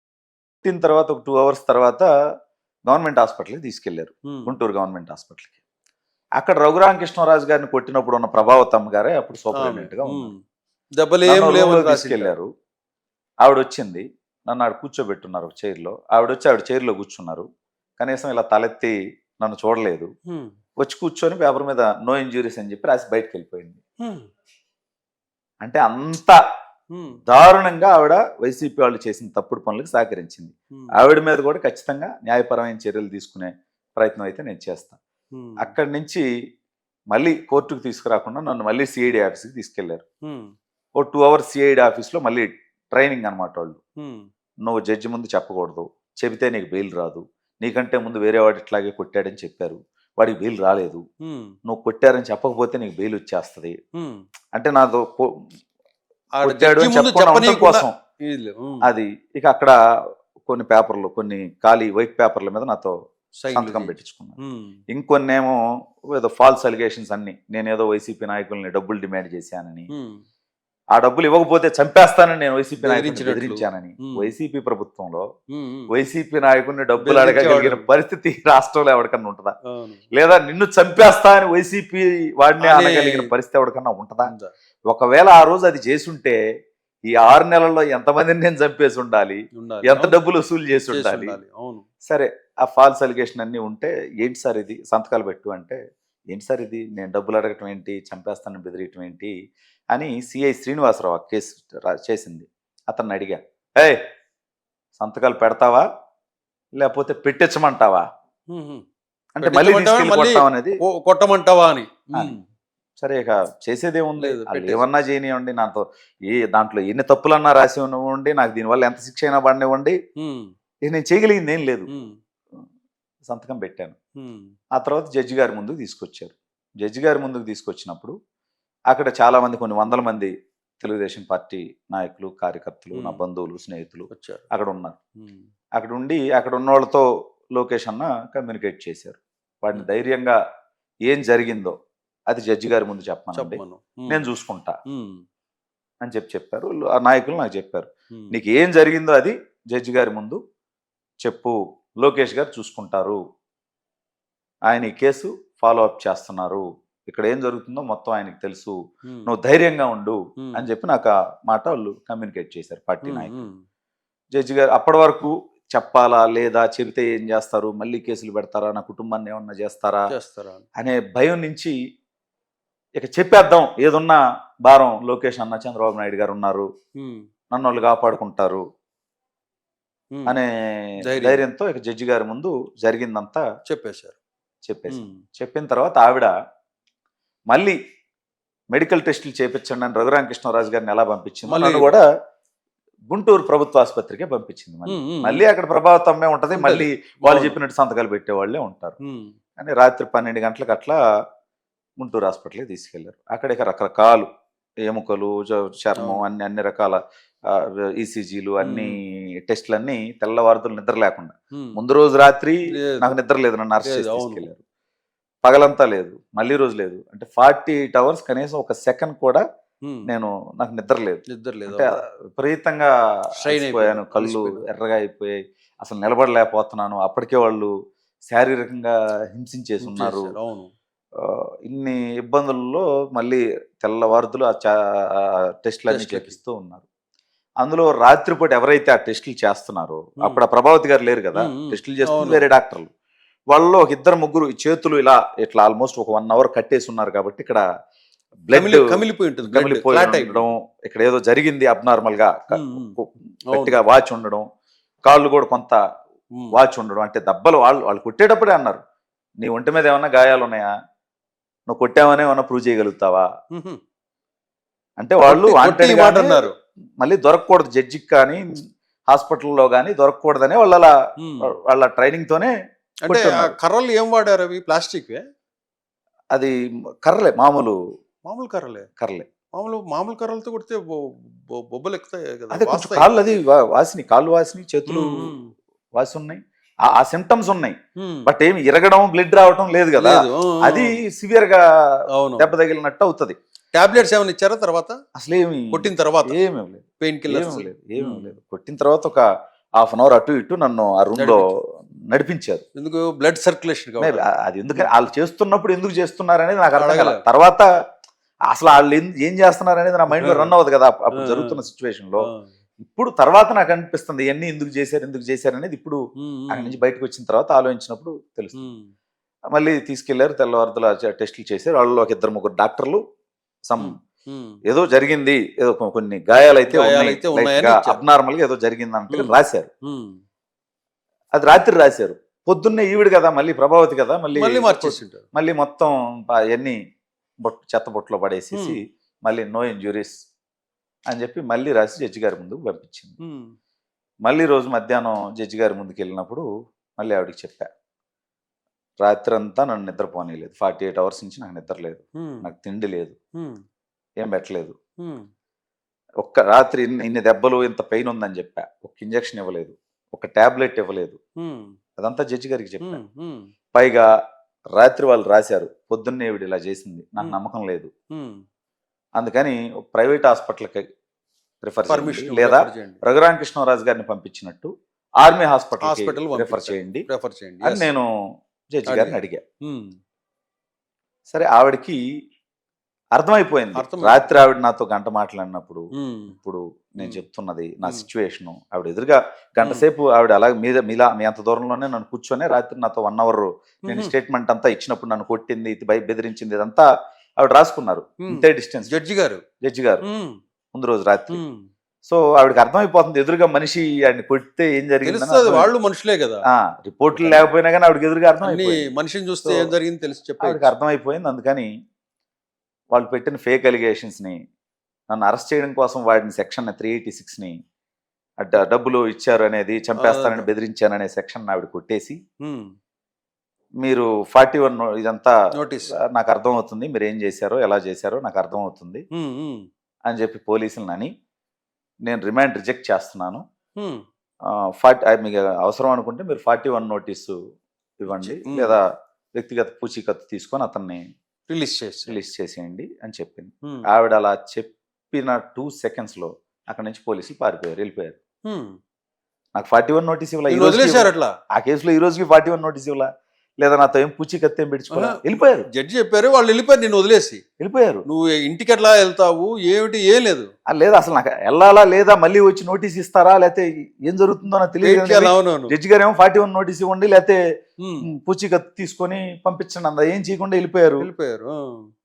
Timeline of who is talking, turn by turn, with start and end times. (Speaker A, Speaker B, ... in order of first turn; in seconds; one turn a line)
Speaker A: 0.6-2.1
Speaker A: 2.9-5.6
Speaker A: 6.4-10.3
Speaker B: 9.6-10.4
Speaker B: 11.0-12.3
Speaker A: 11.2-12.5
Speaker A: 13.4-17.4
Speaker A: 18.0-20.1
Speaker B: 20.3-20.5
Speaker A: 20.8-23.8
Speaker B: 24.0-24.3
Speaker A: 25.6-26.4
Speaker B: 26.9-27.2
Speaker A: 27.3-35.0
Speaker B: 35.3-35.8
Speaker A: 35.6-36.2
Speaker A: 37.1-40.0
Speaker B: 40.2-40.5
Speaker A: 41.0-43.8
Speaker B: 44.0-44.3
Speaker A: 44.6-51.0
Speaker B: 51.2-51.5
Speaker A: 51.7-53.8
Speaker B: 54.0-54.2
Speaker A: 54.5-55.3
Speaker B: 56.4-58.9
Speaker A: 56.4-57.9
Speaker A: 58.8-59.7
Speaker A: 60.4-63.0
Speaker B: 63.4-64.8
Speaker A: 63.5-64.4
Speaker A: 64.9-65.6
Speaker A: 66.1-69.9
Speaker B: 69.9-70.2
Speaker A: 71.0-75.2
Speaker B: 72.8-74.3
Speaker B: 75.5-75.9
Speaker A: 75.9-79.5
Speaker B: 77.0-77.8
Speaker B: 79.7-80.0
Speaker A: 80.1-84.3
Speaker B: 82.6-83.3
Speaker A: 84.9-86.4
Speaker A: 87.1-91.4
Speaker B: 89.6-90.2
Speaker B: 90.9-91.8
Speaker A: 92.1-95.8
Speaker A: 96.3-99.3
Speaker A: 99.9-104.0
Speaker A: 105.0-105.8
Speaker A: 106.8-108.0
Speaker B: 108.5-108.8
Speaker A: 109.4-110.8
Speaker B: 109.4-112.4
Speaker A: 113.0-120.0
Speaker B: 114.2-114.8
Speaker B: 120.2-120.5
Speaker A: 120.8-121.9
Speaker B: 121.9-122.2
Speaker A: 123.2-124.0
Speaker B: 124.2-124.5
Speaker A: 124.8-128.1
Speaker A: 128.9-135.0
Speaker B: 132.9-133.2
Speaker B: 134.1-134.4
Speaker B: 135.2-135.5
Speaker A: 135.8-140.4
Speaker A: 141.1-141.8
Speaker A: 142.3-144.8
Speaker B: 143.3-144.3
Speaker B: 144.9-145.2
Speaker A: 146.0-150.4
Speaker B: 148.1-148.4
Speaker A: 151.2-153.2
Speaker A: 154.7-163.4
Speaker B: 159.1-159.3
Speaker B: 160.4-160.7
Speaker B: 163.0-163.6
Speaker A: 164.3-170.1
Speaker B: 170.1-170.6
Speaker A: 170.8-171.8
Speaker A: 173.0-176.7
Speaker B: 177.0-177.3
Speaker A: 177.5-178.6
Speaker A: 180.3-183.4
Speaker B: 181.1-181.4
Speaker B: 183.7-184.2
Speaker A: 184.7-186.3
Speaker B: 184.9-185.2
Speaker A: 187.5-187.8
Speaker A: 188.7-192.1
Speaker B: 191.5-192.0
Speaker A: 193.1-198.9
Speaker B: 194.9-195.4
Speaker B: 196.5-197.6
Speaker B: 199.0-199.3
Speaker A: 199.6-201.0
Speaker A: 202.0-204.3
Speaker A: 204.8-214.6
Speaker B: 206.0-206.3
Speaker B: 208.6-208.9
Speaker B: 211.5-211.8
Speaker B: 212.7-213.1
Speaker B: 213.8-214.5
Speaker A: 215.4-219.4
Speaker B: 219.8-220.1
Speaker A: 220.1-227.7
Speaker B: 221.3-222.0
Speaker B: 223.4-224.6
Speaker A: 228.3-230.4
Speaker B: 229.8-230.7
Speaker A: 231.2-236.8
Speaker B: 235.9-236.4
Speaker A: 237.6-242.9
Speaker B: 241.4-242.4
Speaker A: 243.5-247.6
Speaker A: 248.4-254.4
Speaker B: 248.5-250.5
Speaker B: 252.5-252.9
Speaker B: 253.5-253.8
Speaker A: 255.1-255.8
Speaker A: 256.5-258.8
Speaker A: 259.4-260.7
Speaker A: 261.7-263.3
Speaker B: 263.5-263.8
Speaker A: 265.0-270.9
Speaker B: 265.3-266.5
Speaker B: 271.2-271.5
Speaker A: 271.4-272.5
Speaker B: 273.0-275.2
Speaker A: 273.1-273.5
Speaker A: 276.3-277.8
Speaker B: 278.2-278.9
Speaker A: 279.0-279.3
Speaker B: 279.5-283.1
Speaker A: 282.5-285.3
Speaker B: 284.9-285.5
Speaker A: 286.0-293.4
Speaker B: 288.0-288.3
Speaker B: 290.0-290.9
Speaker B: 292.1-292.5
Speaker B: 293.7-295.0
Speaker A: 295.2-299.2
Speaker B: 295.7-296.4
Speaker B: 297.0-298.3
Speaker A: 299.8-302.6
Speaker B: 301.2-301.4
Speaker B: 302.8-304.3
Speaker A: 304.0-307.6
Speaker B: 306.7-307.2
Speaker A: 308.5-312.3
Speaker B: 310.1-310.5
Speaker B: 311.2-311.6
Speaker A: 312.8-316.0
Speaker B: 316.2-316.8
Speaker A: 316.5-318.7
Speaker B: 318.6-318.9
Speaker A: 319.5-323.0
Speaker A: 323.7-324.0
Speaker B: 323.8-324.6
Speaker A: 324.7-329.7
Speaker B: 326.7-328.0
Speaker B: 329.1-330.2
Speaker A: 331.4-336.8
Speaker B: 334.3-335.2
Speaker A: 337.4-340.2
Speaker B: 338.5-338.8
Speaker A: 341.1-343.2
Speaker B: 343.2-343.5
Speaker A: 344.2-346.5
Speaker A: 347.0-347.7
Speaker A: 349.0-353.2
Speaker B: 352.2-352.4
Speaker B: 353.4-353.6
Speaker A: 354.2-354.8
Speaker B: 355.0-355.3
Speaker A: 356.2-361.2
Speaker B: 361.4-361.8
Speaker A: 362.0-363.0
Speaker B: 362.8-363.5
Speaker A: 363.7-364.1
Speaker A: 364.8-367.9
Speaker B: 368.1-368.4
Speaker A: 369.2-370.9
Speaker A: 371.6-377.1
Speaker B: 371.9-373.0
Speaker B: 375.8-377.9
Speaker A: 377.6-378.1
Speaker A: 378.7-379.4
Speaker B: 378.9-379.9
Speaker A: 381.3-382.0
Speaker A: 383.1-396.9
Speaker B: 383.8-384.4
Speaker B: 386.0-386.3
Speaker B: 393.9-394.1
Speaker A: 397.4-398.9
Speaker B: 398.2-399.4
Speaker A: 399.6-400.1
Speaker B: 400.0-400.4
Speaker A: 400.7-401.4
Speaker B: 401.3-401.7
Speaker A: 402.1-405.7
Speaker B: 405.1-406.4
Speaker A: 406.5-408.9
Speaker B: 407.1-407.5
Speaker B: 408.4-410.7
Speaker A: 409.4-409.7
Speaker A: 410.4-411.7
Speaker A: 412.9-414.4
Speaker A: 415.1-417.6
Speaker A: 418.4-422.2
Speaker B: 420.0-420.5
Speaker B: 422.4-422.7
Speaker A: 423.8-425.3
Speaker B: 425.6-425.9
Speaker A: 425.9-429.1
Speaker B: 429.1-429.7
Speaker A: 430.1-431.1
Speaker A: 432.1-433.4
Speaker B: 433.8-434.0
Speaker A: 434.5-437.4
Speaker A: 438.0-438.9
Speaker B: 438.1-438.8
Speaker A: 439.4-441.0
Speaker B: 441.5-442.2
Speaker A: 442.1-448.2
Speaker B: 448.5-448.8
Speaker A: 449.6-453.1
Speaker B: 450.5-451.3
Speaker A: 453.6-455.7
Speaker B: 454.9-457.4
Speaker A: 457.6-458.1
Speaker B: 458.1-460.5
Speaker A: 460.7-467.4
Speaker B: 464.8-465.7
Speaker A: 468.1-471.1
Speaker B: 471.0-471.9